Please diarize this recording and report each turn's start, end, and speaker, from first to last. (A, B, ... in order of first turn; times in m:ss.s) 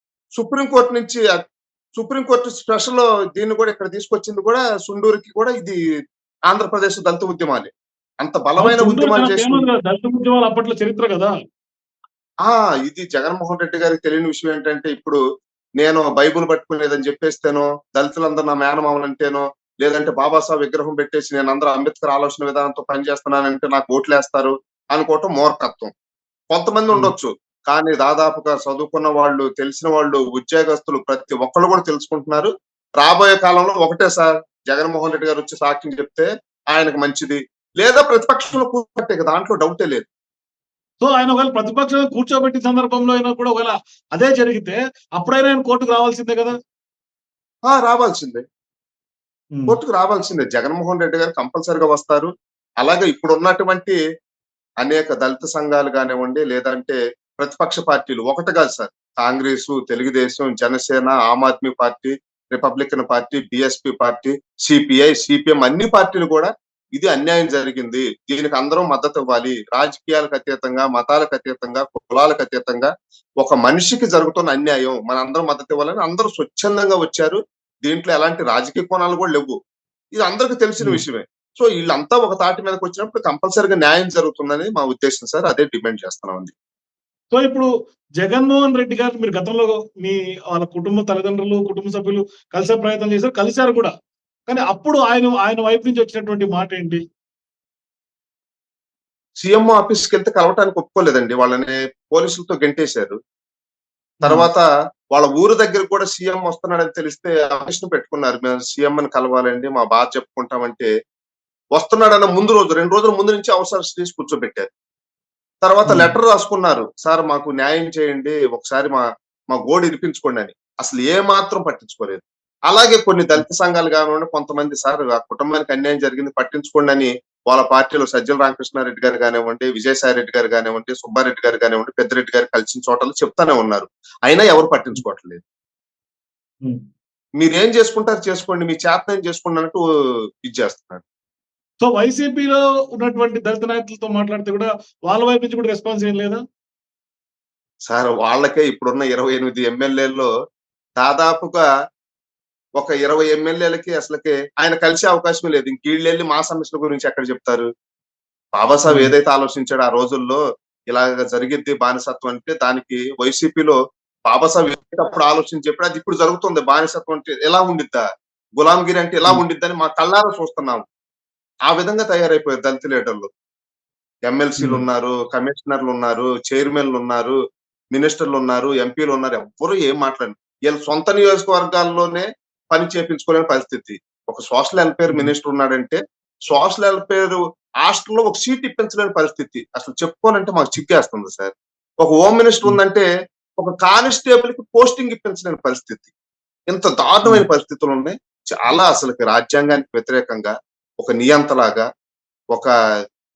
0:00.4-0:01.4 A
0:02.0-0:05.8 A
0:06.5-0:07.7 A
0:08.2-0:09.6 A
0:08.6-0:11.3 B
0:12.4-0:15.2 A
0:15.8-0:25.9 A
0:26.5-0:40.1 A
0:41.0-0:46.5 B
0:47.7-0:48.4 A
0:49.7-0:52.3 A
0:52.8-0:54.0 A
0:54.8-1:12.9 A
1:13.4-1:19.5 A
1:20.2-1:26.5 A
1:27.3-1:27.7 B
1:28.2-1:33.9 B
1:34.5-1:37.0 B
1:39.4-1:43.2 A
1:44.2-1:50.9 A
1:51.7-1:54.7 A
1:55.6-2:15.4 A
1:55.9-1:56.1 B
2:17.4-2:19.8 A
2:20.4-2:21.0 A
2:21.8-2:26.4 B
2:27.9-2:30.3 A
2:31.0-2:31.6 A
2:32.8-2:37.7 A
2:38.6-2:40.4 A
2:38.9-2:39.1 B
2:40.9-2:43.8 A
2:44.3-2:48.0 A
2:48.6-2:50.8 A
2:51.7-2:53.3 A
2:54.3-2:57.4 A
2:54.6-2:54.8 B
2:57.9-3:13.0 A
3:13.6-3:16.1 A
3:16.7-3:21.9 A